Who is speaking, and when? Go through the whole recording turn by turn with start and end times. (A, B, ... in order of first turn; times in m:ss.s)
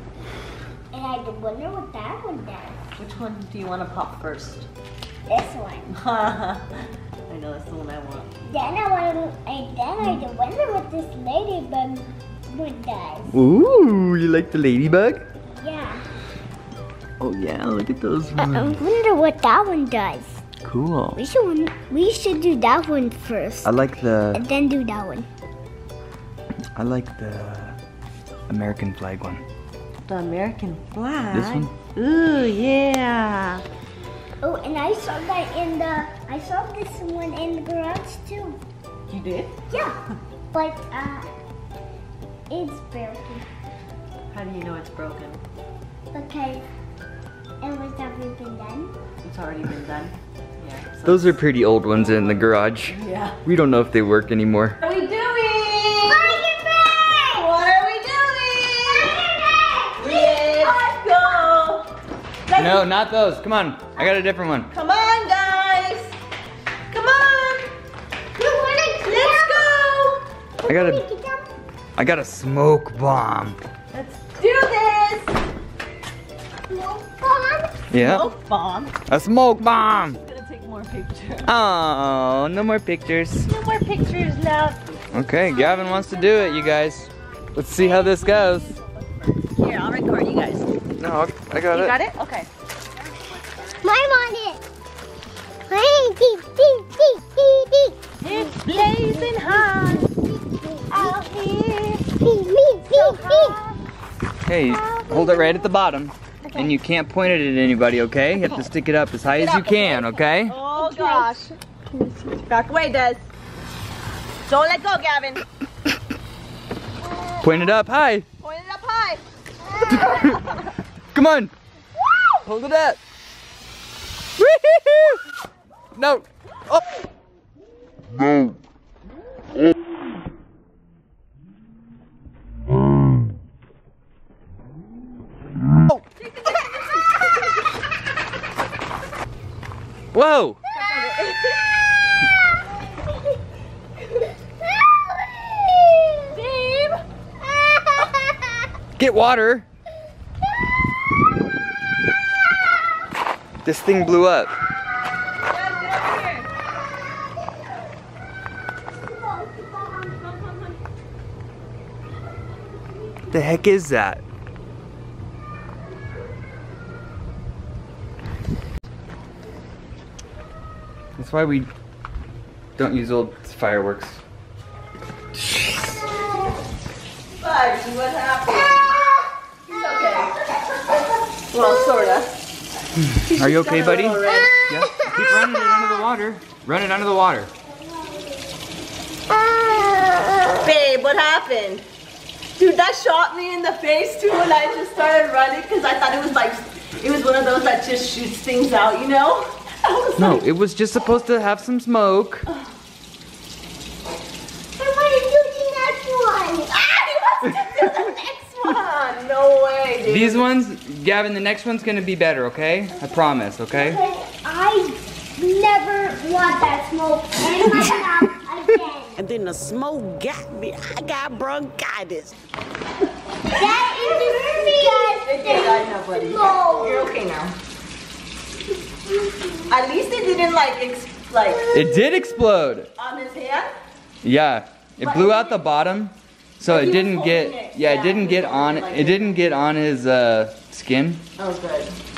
0:00.9-0:02.8 A
0:03.0-0:04.7 B
0:05.3-0:05.9 A
0:05.9-0:06.7 B
0:07.3-0:08.3 B
0:08.4-0:13.4 A
0:13.3-0:15.2 C
0:15.6-0:16.0 A
0:17.2-0:18.8 C
0:18.4-0:20.4 A
0:20.6-0:21.2 C
0:21.1-0:23.7 A
0:23.6-0:24.4 C
0:24.3-0:25.3 A
0:26.8-0:27.8 C
0:28.5-0:29.4 C
0:30.1-0:33.6 B
0:31.3-0:31.7 C
0:34.4-0:38.6 A
0:39.1-0:39.6 B
0:39.7-0:40.0 A
0:40.5-0:41.3 A
0:42.5-0:43.4 A
0:44.3-0:45.4 B
0:46.1-0:46.6 A
0:47.6-0:48.9 A
0:49.2-0:51.4 B
0:51.0-0:54.8 C
0:52.9-0:53.4 B
0:54.8-0:56.4 B
0:56.0-0:57.6 A
0:57.3-0:59.2 B
0:58.7-1:00.8 A
1:00.0-1:01.8 B
1:02.5-1:02.9 B
1:02.6-1:04.7 C
1:04.7-1:06.1 B
1:06.9-1:07.7 B
1:08.4-1:09.6 A
1:09.0-1:10.2 B
1:10.6-1:11.5 A
1:10.6-1:11.0 C
1:12.0-1:13.6 C
1:13.9-1:15.3 B
1:16.7-1:17.8 A
1:17.9-1:18.2 C
1:18.0-1:19.0 B
1:19.1-1:20.2 C
1:20.1-1:21.5 B
1:21.4-1:23.5 C
1:23.4-1:25.0 B
1:25.1-1:28.8 C
1:25.4-1:26.9 A
1:29.5-1:30.7 B
1:31.0-1:32.0 C
1:31.7-1:32.5 B
1:33.8-1:34.6 A
1:35.7-1:41.4 A
1:38.2-1:40.1 B
1:40.9-1:42.0 B
1:42.0-1:43.6 A
1:42.9-1:43.8 B
1:44.4-1:50.6 C
1:44.6-1:45.6 A
1:46.4-1:46.7 A
1:49.4-1:51.5 B
1:49.7-1:50.0 A
1:50.7-1:52.4 A
1:52.4-1:53.3 B
1:54.4-1:55.4 B
1:57.1-1:57.4 A
1:57.4-1:58.2 C
1:58.4-1:59.2 B
1:59.6-2:00.4 A
1:59.9-2:00.4 C
2:01.1-2:01.5 C
2:02.4-2:03.0 C
2:04.4-2:05.2 C
2:06.0-2:06.8 C
2:16.2-2:17.4 B
2:20.1-2:20.6 C
2:20.7-2:21.5 B
2:24.8-2:26.2 A
2:26.3-2:27.0 B
2:27.6-2:28.1 A
2:29.0-2:29.6 C
2:33.6-2:34.5 C
2:35.4-2:36.5 B
2:39.0-2:40.4 A
2:43.3-2:44.2 C
2:51.2-2:51.7 C
2:52.8-2:54.2 C
2:57.4-2:58.9 B
2:59.7-3:00.4 B
2:59.7-3:00.9 A
3:01.5-3:02.5 B
3:01.6-3:02.0 A
3:03.1-3:04.5 B
3:03.3-3:07.5 C
3:04.2-3:05.6 A
3:09.3-3:10.7 A
3:10.6-3:11.8 B
3:12.6-3:20.4 B
3:20.2-3:22.4 C
3:24.8-3:26.7 A
3:26.7-3:30.4 B
3:30.0-3:34.0 C
3:33.0-3:39.2 A
3:39.2-3:42.3 D
3:43.5-3:47.1 A
3:43.6-3:47.6 B
3:49.7-3:51.7 B
3:51.7-3:52.9 C
3:53.0-3:53.7 B
3:54.2-4:01.2 C
3:55.0-3:55.6 B
3:56.6-3:59.4 B
4:01.4-4:02.0 B